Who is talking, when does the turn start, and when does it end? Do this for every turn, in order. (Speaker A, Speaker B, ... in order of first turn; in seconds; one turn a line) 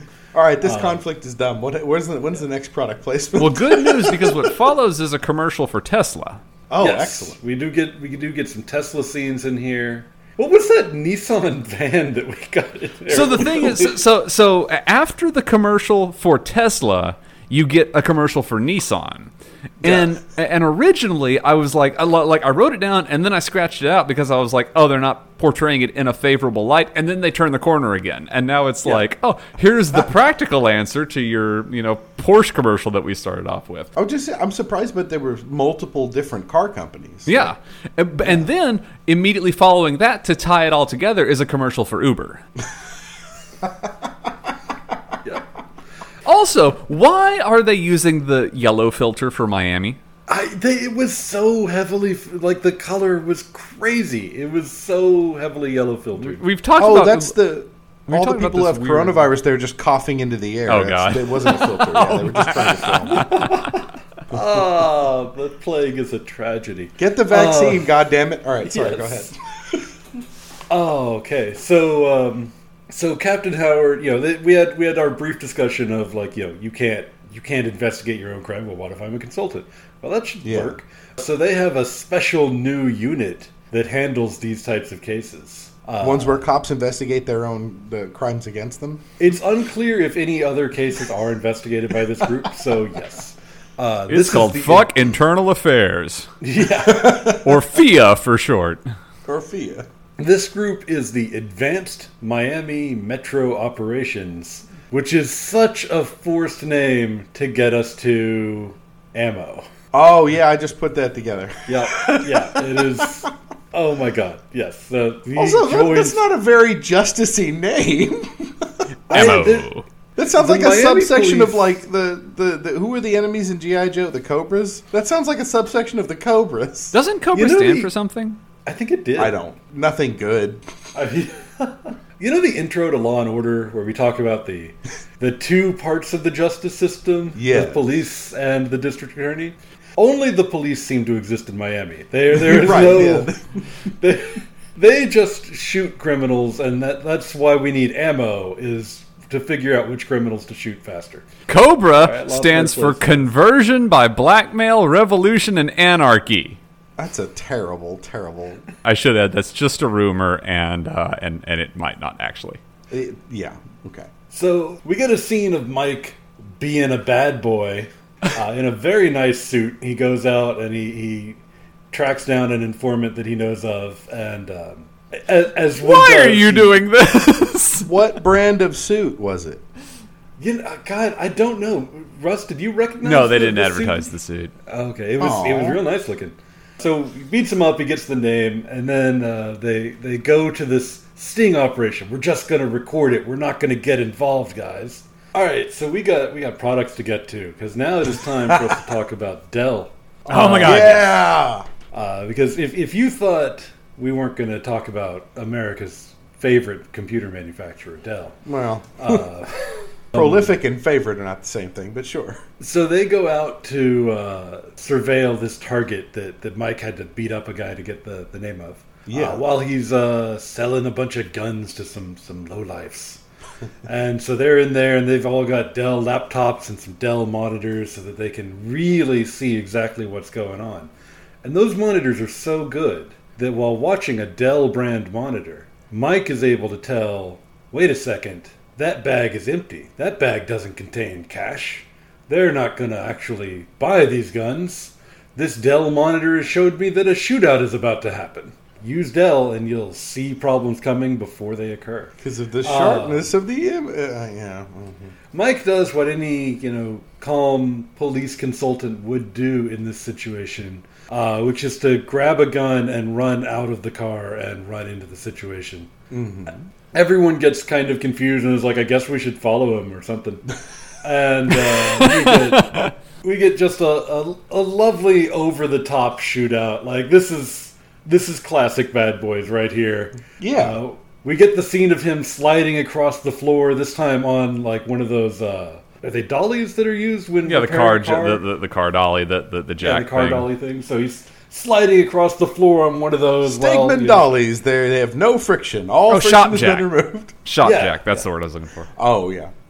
Speaker A: 0.3-4.6
Speaker B: 0.6-1.0
Speaker C: 3.4-6.4
Speaker A: 6.7-7.4
Speaker B: 6.8-13.9
Speaker C: 13.1-33.9
Speaker A: 33.9-37.5
Speaker C: 37.3-42.4
Speaker C: 46.2-50.0
Speaker B: 50.3-56.4
Speaker C: 56.2-57.4
Speaker A: 56.8-63.5
Speaker C: 58.1-59.3
Speaker C: 60.7-63.6
Speaker B: 63.2-63.5
Speaker B: 64.3-67.9
Speaker A: 67.0-69.3
Speaker B: 68.6-69.3
Speaker B: 70.7-86.4
Speaker A: 80.4-80.8
Speaker A: 86.0-89.0
Speaker B: 89.2-95.0
Speaker C: 94.1-96.3
Speaker B: 96.4-97.4
Speaker A: 96.8-97.6
Speaker C: 97.4-98.8
Speaker A: 99.2-99.9
Speaker B: 100.2-109.7
Speaker A: 109.9-112.8
Speaker B: 111.7-116.2
Speaker A: 115.3-119.4
Speaker C: 119.1-119.8
Speaker B: 119.1-121.7
Speaker A: 120.2-127.0
Speaker C: 126.9-128.4
Speaker B: 127.3-127.9
Speaker B: 128.6-129.3
Speaker A: 129.2-130.6
Speaker B: 130.9-143.3
Speaker A: 137.3-137.8
Speaker A: 142.3-143.7
Speaker B: 143.9-151.3
Speaker C: 151.5-156.6
Speaker B: 151.9-153.3
Speaker A: 157.0-158.6
Speaker C: 158.8-162.6
Speaker A: 162.9-164.1
Speaker B: 164.3-171.4
Speaker B: 171.9-176.8
Speaker C: 175.8-177.9
Speaker A: 177.8-179.6
Speaker B: 180.4-184.1
Speaker C: 183.0-184.5
Speaker B: 184.7-201.1
Speaker A: 185.2-185.8
Speaker A: 198.4-198.8
Speaker C: 200.3-201.0
Speaker A: 200.3-201.7
Speaker B: 201.9-208.4
Speaker A: 208.4-209.2
Speaker B: 209.0-210.5
Speaker A: 210.1-212.4
Speaker B: 212.6-223.2
Speaker A: 219.1-219.4
Speaker B: 223.8-230.9
Speaker B: 231.4-253.3
Speaker A: 252.2-255.1
Speaker B: 255.3-265.9
Speaker A: 266.1-266.6
Speaker B: 266.9-288.4
Speaker C: 272.0-272.9
Speaker A: 280.4-280.8
Speaker C: 287.4-290.5
Speaker B: 289.8-294.3
Speaker A: 293.4-297.4
Speaker C: 296.1-296.9
Speaker C: 297.4-298.9
Speaker B: 297.6-298.2
Speaker A: 298.9-299.5